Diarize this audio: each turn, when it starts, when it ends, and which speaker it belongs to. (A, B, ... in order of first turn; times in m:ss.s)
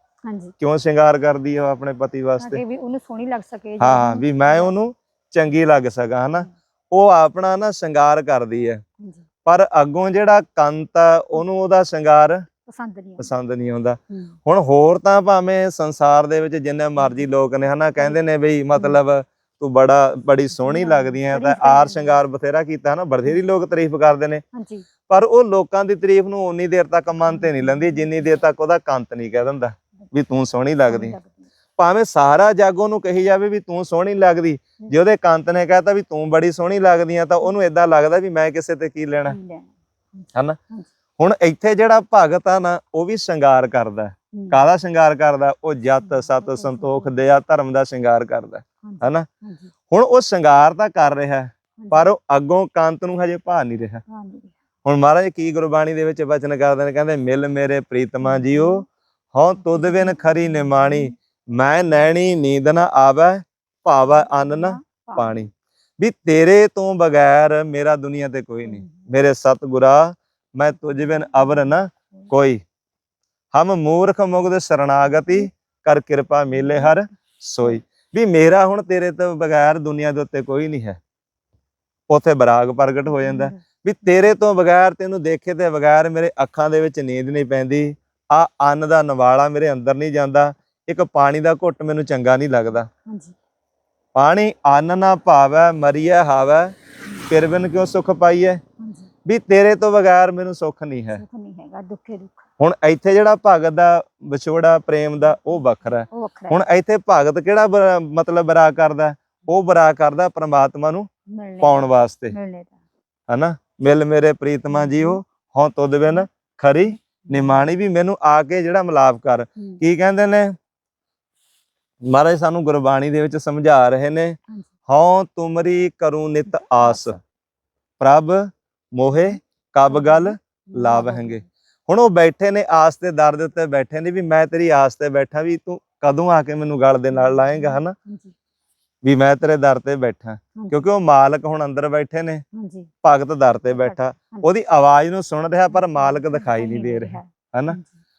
0:00.2-0:00.5 A
0:00.6-0:02.6 B
0:02.4-0:04.7 A
0:03.8-0:08.8 B
0:09.4-0:12.4 B
0:12.6-0:13.3 A
0:13.2-0:24.4 B
0:14.1-0:14.4 A
0:20.6-0:22.2 A
0:24.5-0:24.8 A
0:25.1-0:31.2 B
0:27.3-0:28.1 A
0:30.9-0:31.5 A
0:31.8-0:39.4 B
0:39.3-0:40.9 A
0:41.2-0:49.3 B
0:44.3-0:44.6 A
0:46.0-0:47.1 A
0:48.8-0:49.7 A
0:49.9-0:54.0 B
0:51.8-0:52.0 A
0:54.1-0:54.5 A
0:54.8-1:12.6 B
0:58.2-0:58.8 A
0:59.7-1:00.3 A
1:04.2-1:05.4 A
1:08.6-1:09.1 A
1:13.5-1:21.0 B
1:16.6-1:16.9 A
1:22.1-1:32.9 B
1:23.2-1:23.6 A
1:33.0-1:33.3 A
1:34.1-1:36.7 B
1:37.3-1:38.6 B
1:38.8-1:39.1 A
1:39.2-1:41.2 B
1:41.1-1:42.4 A
1:42.6-1:51.1 B
1:46.0-1:46.6 A
1:51.3-1:52.7 A
1:51.6-1:52.4 B
1:53.3-2:00.5 B
1:54.7-1:55.2 A
2:02.0-2:07.2 B
2:06.5-2:07.2 A
2:08.0-2:17.9 B
2:09.9-2:11.4 A
2:17.1-2:18.3 A
2:19.0-2:22.4 B
2:20.5-2:20.8 A
2:22.5-2:22.9 A
2:23.0-2:27.8 B
2:23.7-2:24.5 A
2:25.7-2:27.9 A